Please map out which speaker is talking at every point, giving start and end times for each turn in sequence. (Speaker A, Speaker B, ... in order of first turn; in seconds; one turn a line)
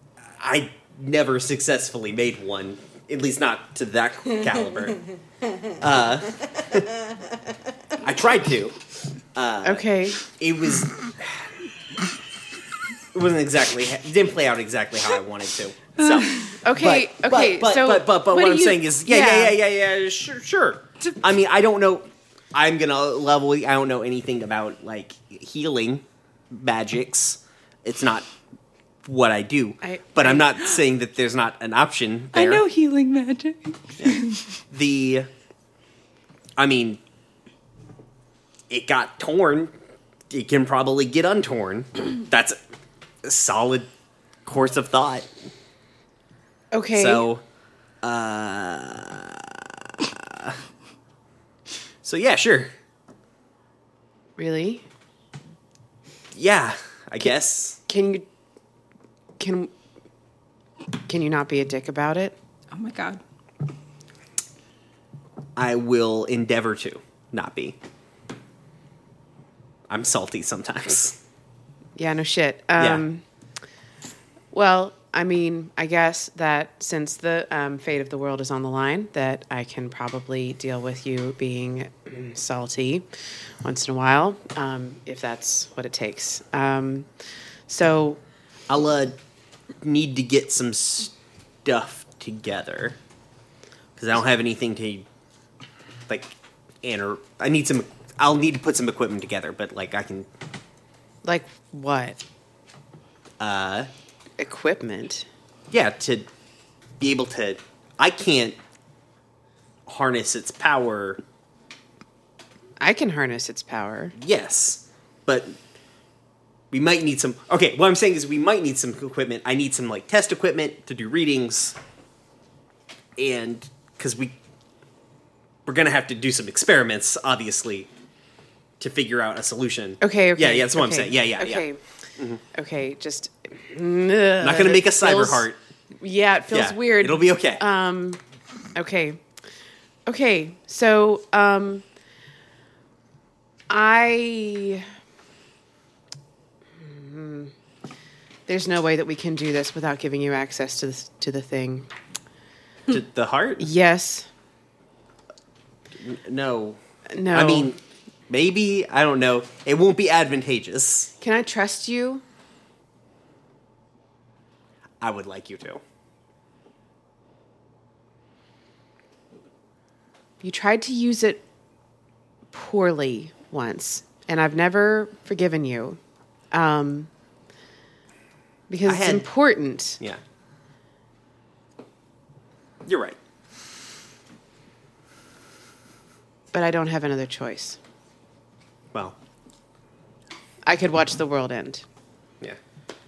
Speaker A: 0.4-5.0
Speaker A: 5.8-6.9
Speaker A: 8.0-8.8
Speaker A: 9.3-11.5
Speaker B: 9.6-10.2
Speaker A: 13.1-28.3
Speaker B: 16.6-19.6
Speaker A: 29.0-32.6
Speaker B: 29.8-30.8
Speaker C: 32.3-34.4
Speaker A: 34.0-35.3
Speaker A: 36.6-37.0
Speaker A: 38.7-39.7
Speaker A: 40.3-42.6
Speaker A: 43.2-43.9
Speaker A: 44.4-45.3
Speaker B: 46.7-47.2
Speaker A: 46.9-47.4
Speaker A: 48.0-50.6
Speaker A: 52.0-52.7
Speaker B: 54.4-54.8
Speaker A: 56.3-57.8
Speaker B: 57.9-58.2
Speaker B: 59.4-59.7
Speaker B: 61.1-62.3
Speaker C: 62.7-63.2
Speaker A: 65.5-67.8
Speaker A: 69.9-71.2
Speaker B: 72.0-73.2
Speaker A: 72.8-73.0
Speaker B: 74.5-83.1
Speaker B: 83.6-87.1
Speaker B: 87.7-88.2
Speaker A: 88.7-89.2
Speaker A: 89.8-91.1
Speaker A: 91.6-93.0
Speaker A: 94.0-95.0
Speaker A: 96.1-100.3
Speaker B: 101.2-102.2
Speaker A: 103.4-103.9
Speaker B: 104.4-105.2
Speaker A: 105.7-106.3
Speaker A: 107.0-108.6
Speaker A: 109.9-111.2
Speaker B: 112.8-114.1
Speaker A: 114.2-115.6
Speaker A: 116.7-121.8
Speaker A: 123.2-124.3
Speaker A: 125.7-127.9
Speaker A: 128.8-131.7
Speaker B: 130.0-131.8
Speaker B: 132.5-135.5
Speaker A: 134.4-135.6
Speaker B: 136.0-138.2
Speaker A: 136.5-137.6
Speaker B: 138.7-139.2
Speaker B: 140.1-141.8
Speaker B: 143.7-144.9
Speaker B: 146.8-147.5
Speaker B: 148.5-151.9
Speaker A: 152.9-153.7
Speaker B: 153.6-154.3
Speaker A: 156.0-157.8
Speaker B: 157.1-157.7
Speaker A: 158.3-161.1
Speaker B: 161.2-162.2
Speaker A: 165.0-165.8
Speaker B: 170.4-171.4
Speaker B: 172.5-176.0
Speaker B: 176.5-177.1
Speaker B: 178.7-180.0
Speaker A: 178.8-179.3
Speaker A: 182.8-183.2
Speaker B: 186.5-187.8
Speaker B: 190.7-191.8